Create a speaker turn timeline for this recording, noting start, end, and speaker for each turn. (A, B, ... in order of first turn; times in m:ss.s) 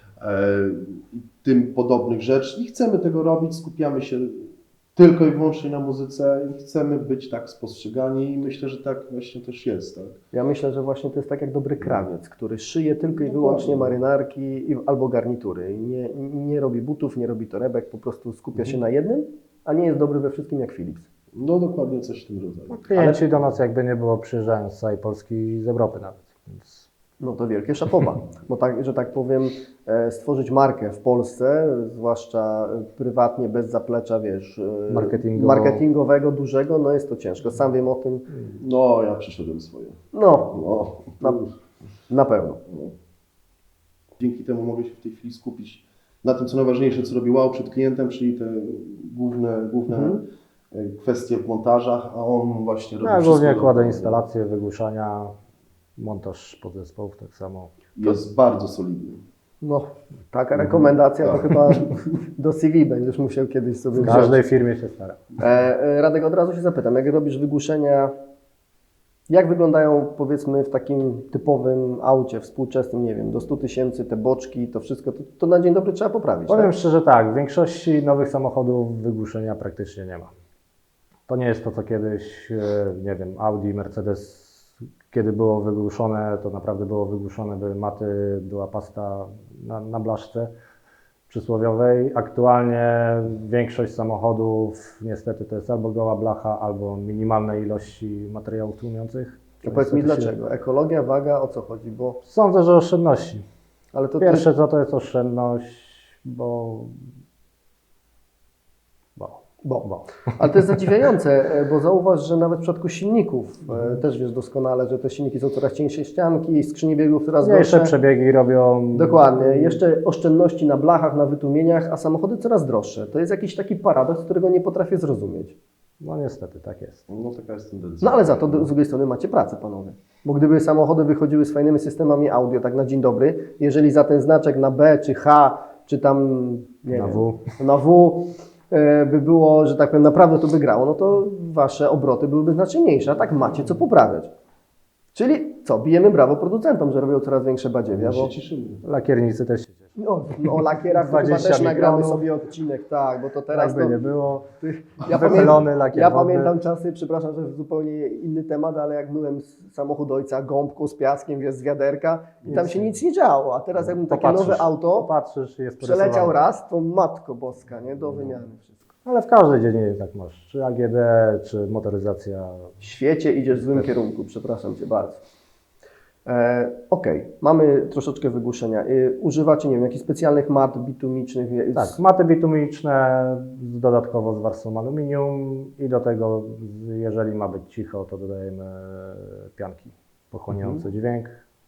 0:00.2-0:10.2 A
0:10.3-0:21.1 B
0:13.2-0:14.0 A
0:21.3-0:23.3 A
0:22.7-0:26.8 C
0:27.2-0:38.3 B
0:34.9-0:35.8 C
0:38.5-0:41.5 A
0:40.1-0:40.6 B
0:42.1-0:42.6 B
0:44.2-0:54.2 A
0:49.9-0:50.2 B
0:53.0-0:55.3 C
0:56.0-0:57.8 C
0:58.0-0:59.2 A
0:59.6-1:04.4 B
1:00.5-1:01.9 A
1:04.0-1:05.2 C
1:05.4-1:08.1 B
1:09.3-1:16.7 B
1:16.5-1:20.3 C
1:21.3-1:30.5 C
1:31.3-1:40.3 C
1:39.6-1:42.2 B
1:42.2-1:43.4 C
1:43.9-1:44.5 B
1:44.2-1:47.0 C
1:49.2-1:50.2 C
1:49.6-1:57.9 B
1:57.4-1:59.8 C
1:58.9-2:05.6 B
2:06.0-2:07.0 C
2:07.1-2:08.7 A
2:08.0-2:24.3 B
2:16.9-2:17.4 C
2:25.1-2:28.3 B
2:27.9-2:28.8 A
2:28.8-2:29.8 C
2:30.0-2:45.1 B
2:30.6-2:32.2 C
2:33.5-2:34.4 C
2:35.0-2:35.6 A
2:35.1-2:36.5 C
2:42.4-2:42.9 C
2:43.8-2:46.4 C
2:45.8-2:48.9 B
2:49.0-2:52.7 C
2:52.8-2:55.2 B
2:53.5-2:53.9 C
2:56.2-3:02.0 B
3:01.7-3:11.3 C
3:10.5-3:10.8 B